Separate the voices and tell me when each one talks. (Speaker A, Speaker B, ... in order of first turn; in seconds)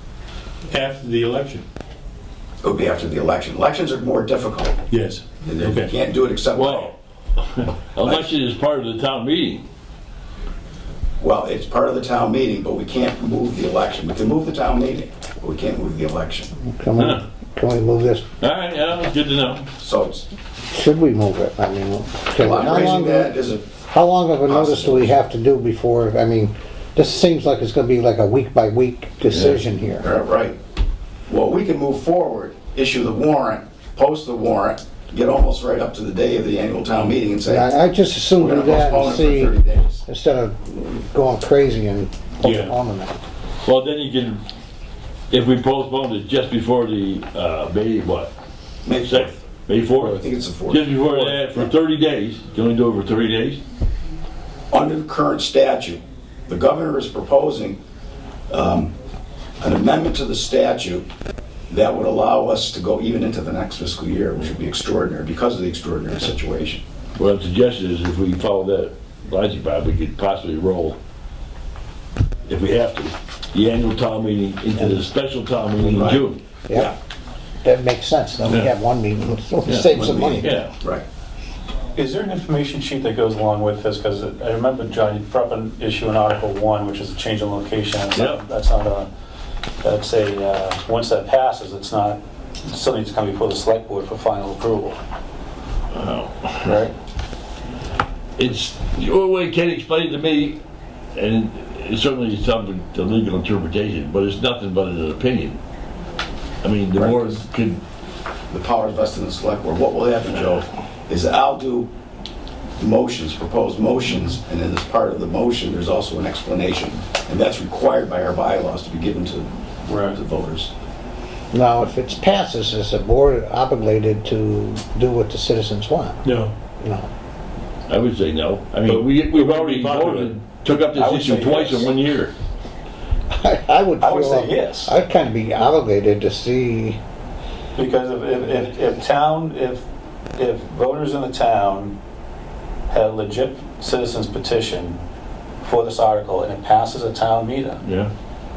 Speaker A: 0.7-1.6, 4.9-5.9, 42.4-42.7, 126.2-126.5, 128.8-130.4
Speaker B: 2.6-4.8, 5.4-6.9, 8.0-8.3, 11.2-16.5, 19.8-20.2, 22.4-23.7, 24.5-25.1, 30.0-30.6, 31.3-37.7, 38.4-40.0, 48.8-49.4, 50.0-50.9, 54.7-57.8, 58.5-58.9, 59.6-61.0, 61.7-66.8, 75.8-76.9, 79.9-81.0, 107.0-107.4, 108.5-111.9, 112.8-120.7
Speaker C: 6.5-9.6, 17.0-17.2, 18.4-19.7, 29.3-29.6, 43.6-44.4, 45.3-48.3, 48.9-53.6, 67.2-71.0, 72.5-76.4, 79.7-80.7, 88.1-88.4, 95.9-96.8, 98.4-100.6, 101.1-105.6, 106.6-107.8, 127.9-132.3, 147.8-148.1
Speaker D: 16.6-18.2, 20.7-23.3, 23.9-30.1, 37.5-43.2, 76.7-76.9, 77.6-80.5, 121.5-126.2, 126.8-127.1, 133.3-137.0
Speaker E: 81.9-89.1, 89.8-95.0, 96.6-96.9, 119.9-120.2, 130.9-131.9, 134.0-134.9, 137.8-141.9, 142.9-145.0, 145.6-147.8